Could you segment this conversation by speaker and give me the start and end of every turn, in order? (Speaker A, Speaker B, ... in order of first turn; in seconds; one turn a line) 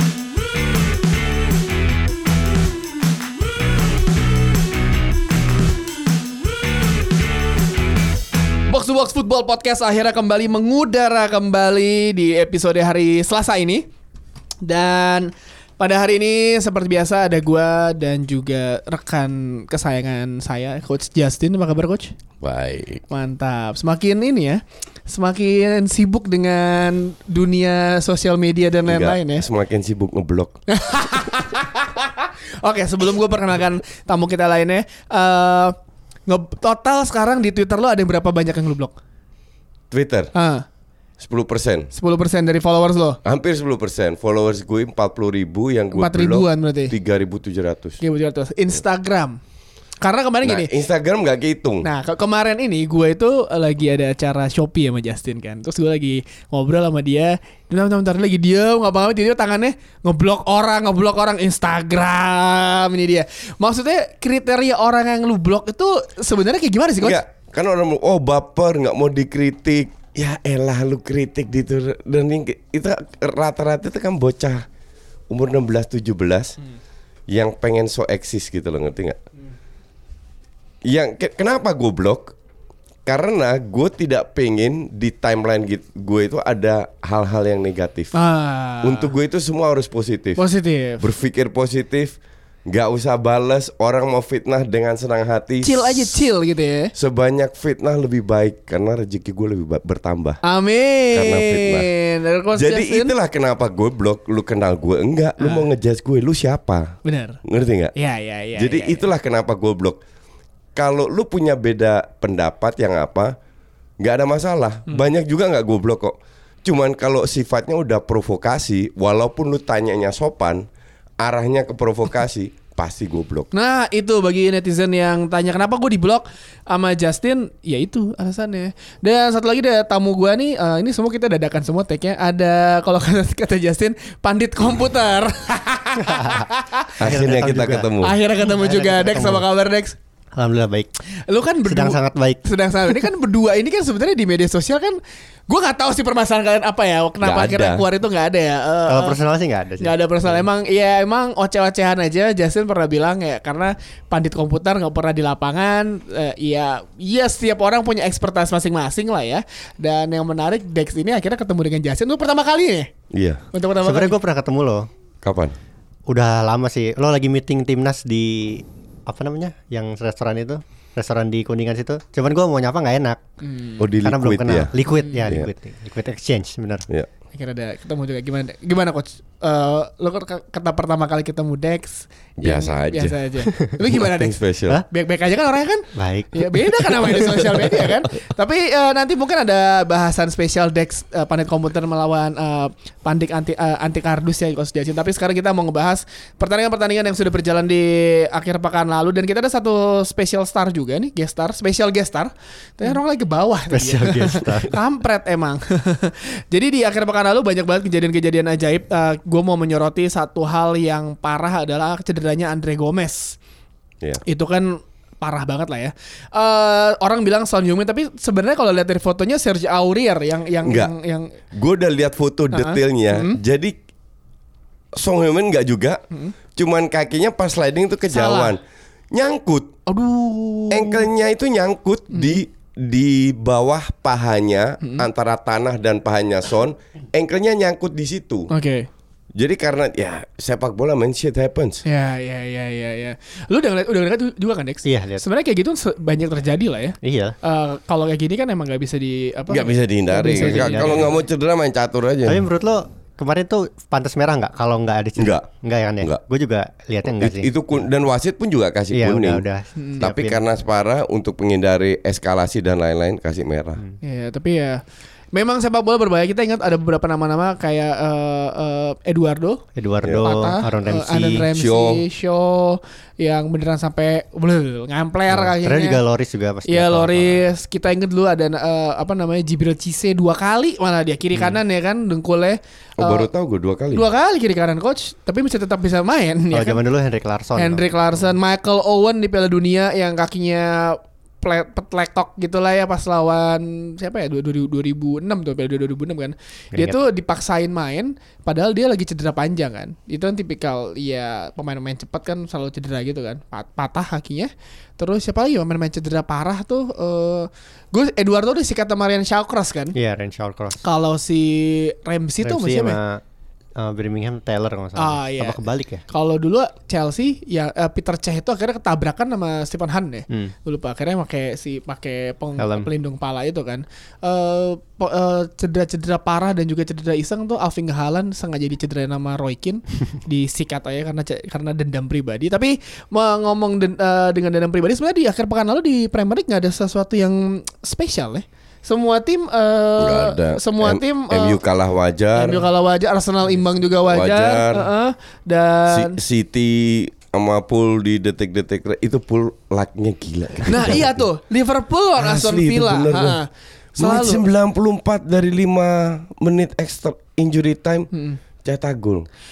Speaker A: 8.7-13.8
Speaker A: 14.6-22.1
Speaker B: 22.4-23.0
Speaker A: 23.1-29.5
Speaker B: 28.9-30.6
Speaker A: 30.7-35.8
Speaker A: 36.3-39.0
Speaker B: 39.9-40.3
Speaker A: 40.3-40.7
Speaker B: 41.2-41.9
Speaker A: 41.9-43.2
Speaker B: 43.2-48.0
Speaker A: 45.9-46.9
Speaker A: 48.0-49.4
Speaker A: 50.0-50.7
Speaker B: 50.4-51.9
Speaker A: 51.8-67.2
Speaker B: 67.0-74.7
Speaker B: 75.3-76.6
Speaker B: 77.3-79.2
Speaker B: 80.8-82.3
Speaker B: 83.1-88.1
Speaker A: 88.1-89.1
Speaker B: 88.8-90.4
Speaker A: 90.4-91.0
Speaker B: 91.0-96.1
Speaker A: 95.6-96.9
Speaker B: 97.0-100.4
Speaker A: 100.4-103.1
Speaker B: 101.1-101.9
Speaker B: 102.5-107.9
Speaker A: 105.4-105.7
Speaker A: 107.0-107.4
Speaker A: 108.0-109.0
Speaker B: 108.6-110.0
Speaker B: 110.8-113.4
Speaker B: 114.0-120.7
Speaker B: 121.2-123.5
Speaker A: 123.5-137.0
Speaker C: 136.0-136.5
Speaker B: 137.0-138.2
Speaker C: 137.0-139.5
Speaker A: 138.0-140.0
Speaker C: 140.4-140.9
Speaker A: 141.3-149.2
Speaker C: 141.7-142.4
Speaker B: 147.2-147.8
Speaker C: 148.9-150.4
Speaker A: 149.8-162.9
Speaker B: 163.1-163.4
Speaker A: 163.5-164.2
Speaker C: 163.8-164.9
Speaker B: 165.2-165.6
Speaker C: 166.1-173.2
Speaker A: 173.4-173.8
Speaker B: 173.8-174.7
Speaker C: 174.0-176.9
Speaker A: 174.9-175.3
Speaker A: 177.3-213.4
Speaker B: 182.4-183.2
Speaker B: 183.9-184.8
Speaker C: 185.9-187.6
Speaker C: 203.7-204.8
Speaker A: 214.2-221.3
Speaker B: 220.6-220.9
Speaker B: 221.5-223.8
Speaker A: 222.5-223.4
Speaker B: 225.0-226.0
Speaker B: 226.5-229.7
Speaker A: 228.1-228.6
Speaker A: 229.9-231.1
Speaker B: 230.7-238.5
Speaker A: 232.1-232.4
Speaker A: 234.8-235.1
Speaker A: 238.5-238.9
Speaker B: 239.3-241.8
Speaker A: 241.8-251.1
Speaker C: 244.8-245.2
Speaker C: 247.0-247.3
Speaker B: 249.5-252.5
Speaker C: 250.1-251.2
Speaker C: 252.2-257.5
Speaker B: 255.2-255.5
Speaker B: 257.2-259.4
Speaker C: 258.9-260.4
Speaker A: 259.8-260.0
Speaker B: 260.0-263.8
Speaker A: 264.0-264.8
Speaker A: 265.3-269.6
Speaker C: 269.8-271.5
Speaker A: 270.2-276.0
Speaker B: 271.5-272.0
Speaker C: 275.3-277.4
Speaker A: 276.7-283.3
Speaker B: 283.0-284.1
Speaker A: 283.9-286.8
Speaker C: 286.5-288.2
Speaker A: 287.6-309.9
Speaker C: 296.7-297.0
Speaker C: 309.9-310.8
Speaker A: 310.8-313.0
Speaker C: 312.4-313.2
Speaker C: 313.8-316.0
Speaker A: 315.0-315.6
Speaker A: 316.1-341.6
Speaker C: 322.6-322.9
Speaker B: 340.0-342.7
Speaker A: 342.3-346.2
Speaker B: 344.1-344.9
Speaker B: 345.9-351.2
Speaker A: 350.6-354.4
Speaker B: 352.2-353.4
Speaker B: 354.0-358.1
Speaker A: 358.1-358.4
Speaker B: 358.6-359.3